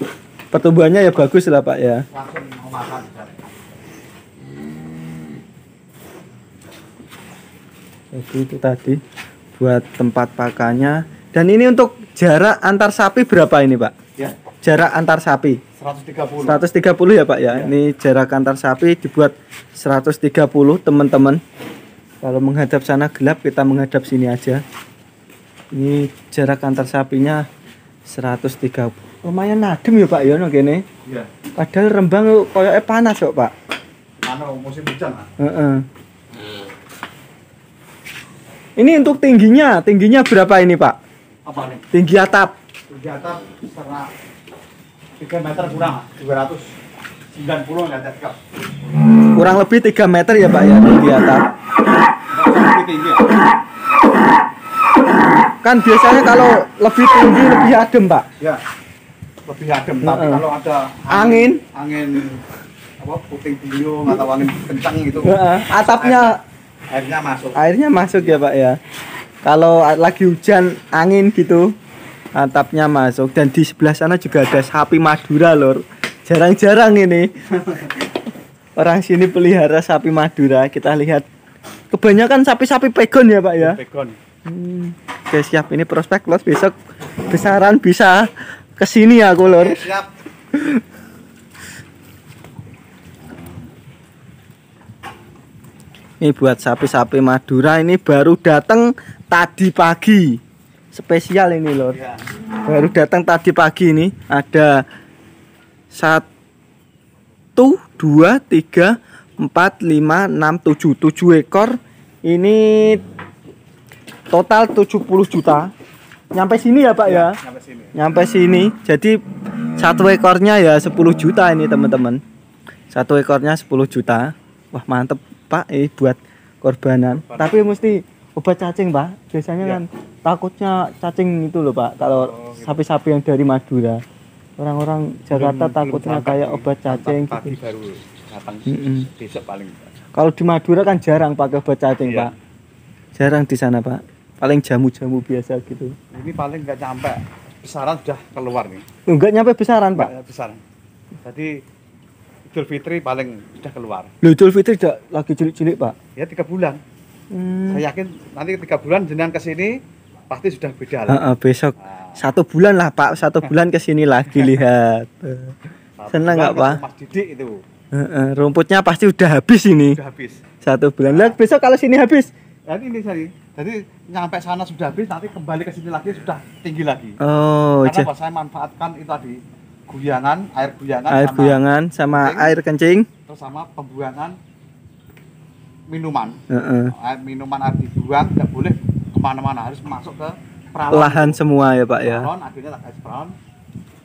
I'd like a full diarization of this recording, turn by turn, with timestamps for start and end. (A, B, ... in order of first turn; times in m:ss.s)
0:00.5-0:02.0 A
0:02.1-0:03.6 B
0:08.1-0:09.0 A
0:09.6-0:13.9 A
0:14.6-0:15.6 A
0:15.8-0:16.6 B
0:16.4-0:21.4 A
0:22.2-0:24.6 A
0:25.7-0:27.4 A
0:28.1-0:30.8 A
0:31.6-0:33.5 A
0:34.2-0:35.3 B
0:35.4-0:35.8 A
0:38.8-0:41.0 A
0:41.4-0:41.8 B
0:41.9-0:42.5 A
0:42.9-0:44.1 B
0:45.2-0:46.7 B
0:47.3-0:48.4 B
0:49.4-0:51.5 A
0:52.3-0:53.3 B
0:55.6-0:58.3 A
0:59.4-1:02.4 B
1:00.0-1:00.4 A
1:01.1-1:01.6 A
1:03.0-1:06.4 B
1:05.2-1:06.4 A
1:06.9-1:08.4 B
1:07.6-1:08.8 A
1:09.4-1:11.7 A
1:12.3-1:17.8 A
1:18.8-1:21.2 A
1:21.9-1:23.8 A
1:23.6-1:24.2 B
1:24.4-1:26.7 A
1:27.3-1:29.9 A
1:29.4-1:30.1 B
1:30.5-1:30.8 A
1:36.2-1:40.4 A
1:40.9-1:42.0 A
1:41.9-1:42.2 B
1:42.6-1:44.8 A
1:45.9-1:46.2 A
1:47.6-1:53.0 A
1:54.3-1:55.7 A
1:56.3-1:57.3 A
1:57.0-1:57.9 B
1:57.9-1:59.2 A
1:59.8-2:02.2 A
2:02.9-2:14.0 A
2:07.2-2:07.7 B
2:12.0-2:12.8 B
2:14.6-2:17.5 A
2:15.3-2:19.9 B
2:18.7-2:19.1 A
2:20.1-2:22.3 A
2:22.0-2:22.3 B
2:23.2-2:25.9 A
2:26.1-2:28.8 B
2:29.1-2:30.1 A
2:30.0-2:30.6 B
2:31.2-2:31.6 B
2:32.5-2:34.1 B
2:34.2-2:36.0 A
2:36.2-2:36.8 B
2:37.3-2:37.8 A
2:37.7-2:39.8 B
2:40.3-2:41.3 B
2:41.1-2:45.6 A
2:41.8-2:42.2 B
2:46.0-2:47.6 B
2:46.1-2:46.8 A
2:47.9-2:50.0 A
2:49.8-2:50.4 B
2:50.6-2:52.3 A
2:51.1-2:51.4 B
2:52.7-2:57.2 B
2:57.2-2:58.1 A
2:57.8-3:02.6 B
3:01.1-3:03.1 A
3:03.3-3:04.4 B
3:05.9-3:11.4 B
3:06.5-3:06.9 A
3:10.9-3:12.3 A
3:12.0-3:13.4 B